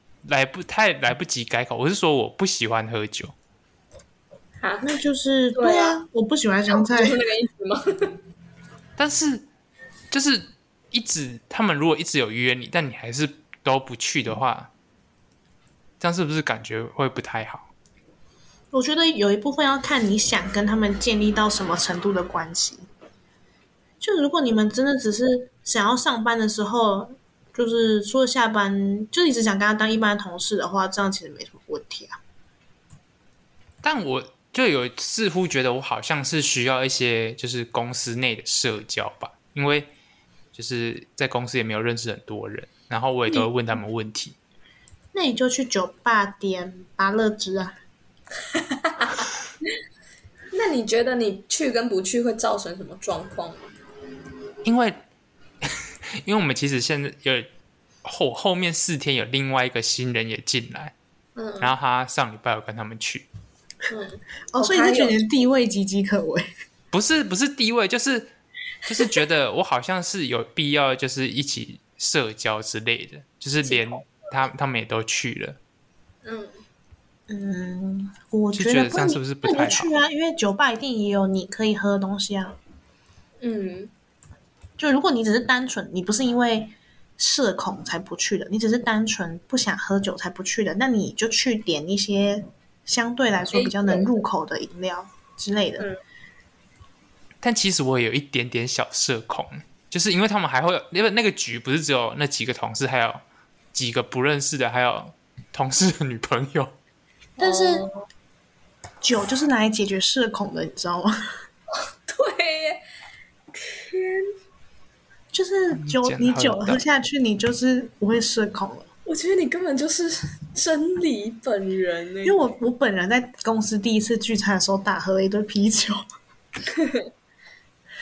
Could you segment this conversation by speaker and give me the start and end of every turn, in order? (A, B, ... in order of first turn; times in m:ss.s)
0:00.2-0:03.3 A
0:04.6-0:04.9 B
0:04.8-0:07.2 C
0:05.6-0:06.0 B
0:06.7-0:08.2 B
0:09.0-0:09.5 A
0:10.1-0:14.7 A
0:16.0-0:17.7 A
0:18.7-0:22.9 C
0:24.0-0:32.2 C
0:33.8-0:39.9 A
0:40.5-0:44.4 A
0:45.1-0:47.8 C
0:48.7-0:49.1 B
0:50.5-0:53.7 B
0:54.6-0:55.0 A
0:55.6-0:57.5 A
0:58.0-1:00.9 A
1:01.4-1:01.8 B
1:01.6-1:03.3 A
1:03.9-1:05.2 B
1:04.5-1:06.5 C
1:06.9-1:08.3 A
1:08.8-1:15.6 A
1:13.6-1:13.9 B
1:16.2-1:16.6 B
1:17.3-1:22.6 C
1:18.5-1:19.9 A
1:23.4-1:23.9 B
1:24.8-1:35.9 C
1:33.5-1:34.1 B
1:37.4-1:43.2 A
1:43.7-1:46.8 A
1:47.4-1:47.9 C
1:47.4-1:48.0 B
1:49.0-1:51.2 C
1:51.8-1:52.8 B
1:53.6-1:54.3 B
1:55.3-1:58.9 C
1:55.7-1:56.8 A
1:59.1-2:02.4 B
2:02.2-2:06.0 C
2:06.8-2:07.1 B